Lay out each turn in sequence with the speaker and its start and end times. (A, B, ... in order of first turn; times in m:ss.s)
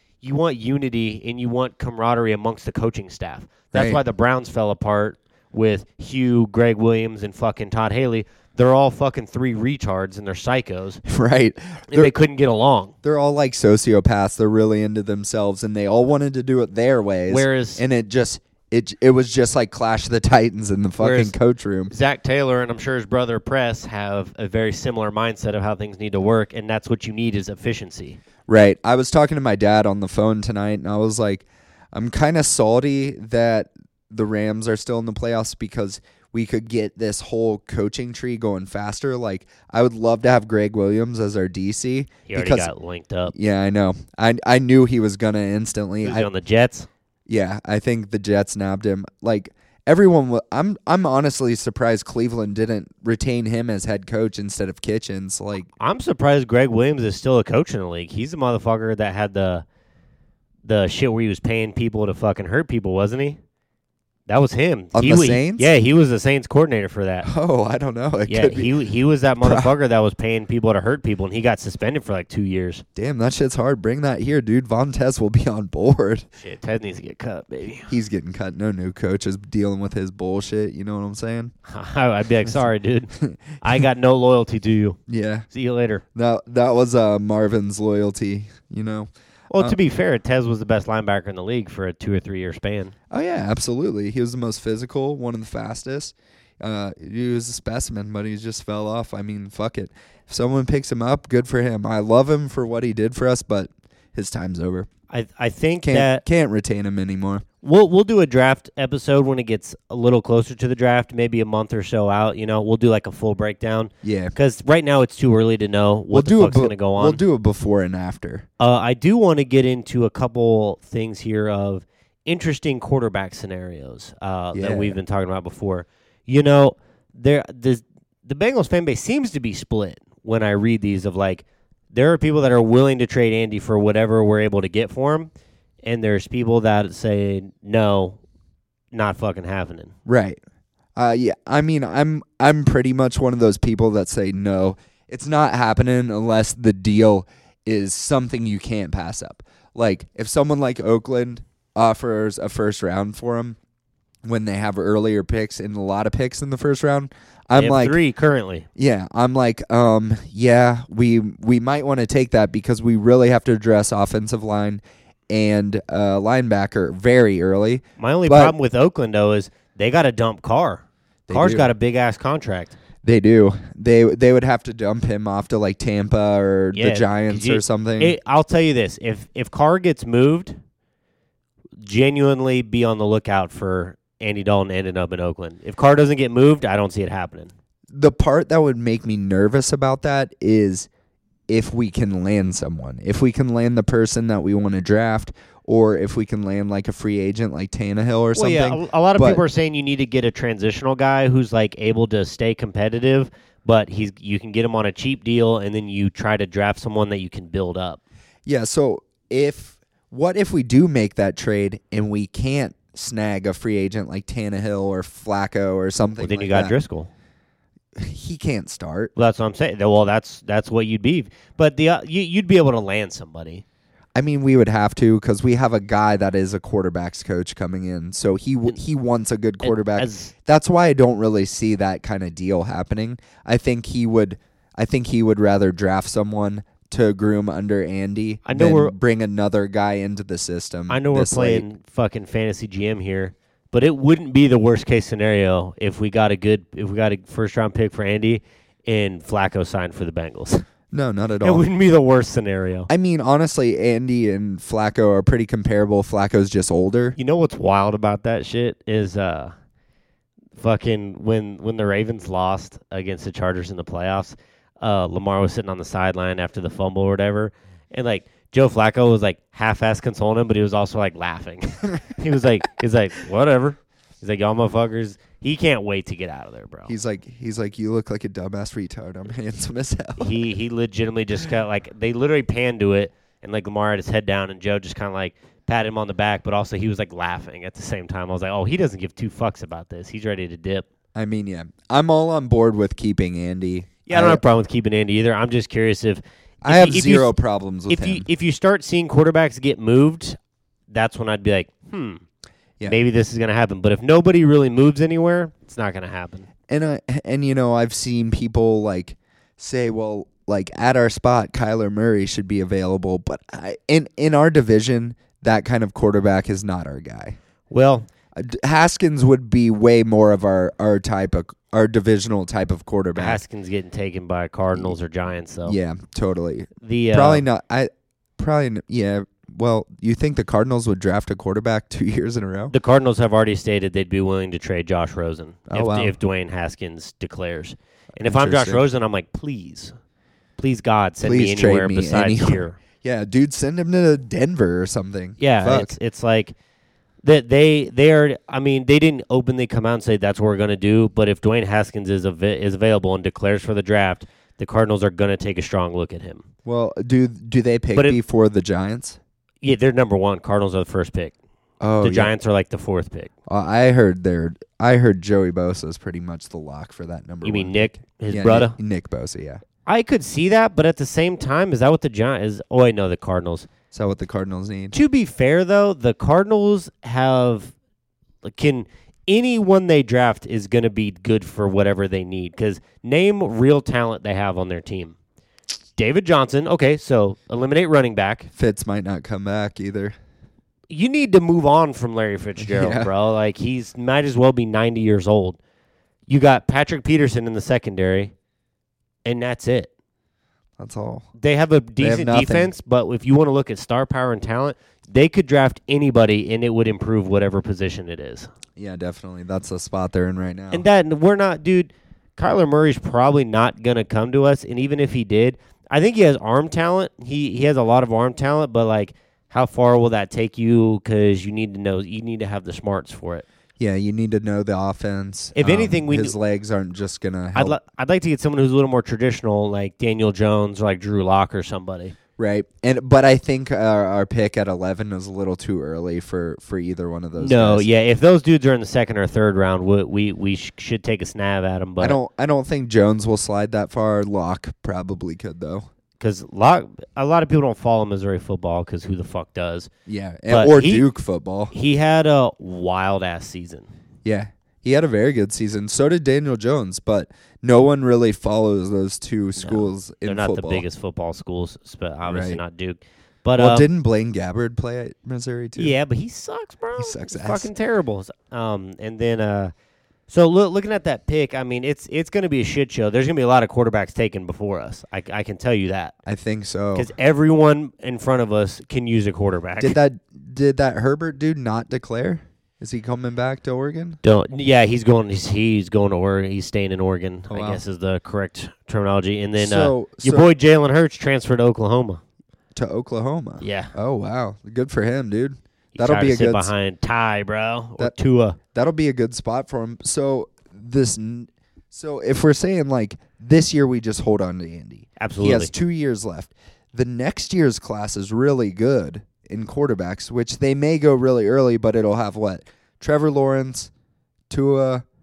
0:00.2-0:11.0 A
0:03.7-0:04.0 B
0:11.0-0:12.1 B
0:11.9-0:12.9 A
0:13.0-0:21.9 B
0:17.3-0:17.8 A
0:21.0-0:21.3 A
0:21.9-0:28.2 A
0:28.5-0:42.7 B
0:42.3-0:43.3 A
0:43.3-0:46.3 B
0:46.0-0:46.9 A
0:47.3-0:55.7 B
0:55.8-0:59.6 A
1:00.6-1:03.4 A
1:04.3-1:07.3 A
1:04.9-1:05.7 B
1:07.2-1:08.7 B
1:08.3-1:12.8 A
1:09.4-1:09.7 B
1:13.0-1:16.3 B
1:16.4-1:17.9 A
1:17.9-1:21.5 B
1:21.7-1:25.0 A
1:25.1-1:25.5 B
1:25.5-1:26.0 A
1:26.1-1:29.8 B
1:29.5-1:32.9 A
1:33.1-1:44.9 B
1:45.1-1:46.2 A
1:45.8-1:47.4 B
1:47.6-1:57.2 A
1:54.0-1:54.3 B
1:56.1-1:58.4 B
1:58.6-2:15.3 A
2:04.5-2:05.0 B
2:15.8-2:18.2 A
2:18.9-2:19.9 A
2:20.0-2:20.4 B
2:21.0-2:33.6 B
2:34.2-2:38.0 B
2:37.5-2:38.7 A
2:38.8-2:48.5 B
2:48.0-2:52.8 A
2:51.3-2:51.7 B
2:53.0-2:58.2 B
2:56.7-3:00.6 A
3:01.8-3:07.5 A
3:07.9-3:10.9 B
3:11.5-3:19.4 B
3:18.3-3:28.0 A
3:28.4-3:36.8 B
3:36.2-3:37.1 A
3:38.0-3:39.1 B
3:39.2-3:43.6 A
3:44.1-4:01.6 B
3:49.6-3:50.3 A
3:58.4-3:58.9 A
4:00.9-4:10.6 A
4:10.9-4:11.6 B
4:11.4-4:12.9 A
4:12.9-4:17.2 B
4:17.2-4:19.5 A
4:20.6-4:36.9 A
4:36.9-4:40.3 B
4:40.2-4:50.8 A
4:51.1-4:54.4 B
4:54.0-4:57.3 A
4:56.6-4:58.3 B
4:57.9-5:00.4 A
5:00.9-5:02.2 A
5:02.8-5:06.5 A
5:06.7-5:17.4 B
5:17.7-5:18.1 A
5:18.3-5:23.4 B
5:23.2-5:25.8 A
5:25.6-5:32.7 B
5:26.8-5:27.4 A
5:32.7-5:39.9 A
5:35.7-5:36.1 B
5:38.2-5:38.8 B
5:40.6-5:42.8 A
5:41.2-5:45.9 B
5:45.4-5:46.5 A
5:47.2-5:56.4 A
5:56.6-5:59.2 B
5:57.9-5:58.2 A
5:59.6-6:01.3 A
6:01.8-6:02.3 B
6:02.0-6:03.3 A
6:03.5-6:09.6 B
6:07.4-6:08.8 A
6:09.8-6:13.7 A
6:13.9-6:15.0 B
6:14.9-6:17.7 A
6:18.4-6:25.2 A
6:26.0-6:28.5 A
6:28.5-6:30.2 B
6:30.9-6:35.6 A
6:32.6-6:33.1 B
6:36.3-6:38.3 A
6:39.2-6:39.9 A
6:40.8-6:41.3 B
6:41.4-6:48.5 A
6:42.0-6:42.7 B
6:48.8-6:50.8 B
6:50.7-7:03.4 A
7:03.8-7:07.8 B
7:05.5-7:06.4 A
7:07.5-7:12.1 A
7:12.4-7:17.8 B
7:17.4-7:22.2 A
7:22.0-7:25.9 B
7:26.2-7:29.9 A
7:30.1-7:31.7 B
7:30.5-7:31.0 A
7:31.7-7:33.9 A
7:34.2-7:40.8 B
7:39.6-7:43.9 A
7:42.2-7:42.6 B
7:43.6-7:45.9 B
7:45.8-7:49.7 A
7:47.0-7:47.7 B
7:50.3-7:56.1 A
7:56.2-7:57.1 B
7:56.9-8:00.0 A
7:59.8-8:04.2 B
8:04.2-8:12.2 A
8:07.5-8:07.8 B
8:09.6-8:10.5 B
8:12.7-8:16.7 B
8:13.6-8:13.9 A
8:15.9-8:18.6 A
8:18.7-8:33.9 B
8:25.2-8:25.7 A
8:34.5-8:35.0 B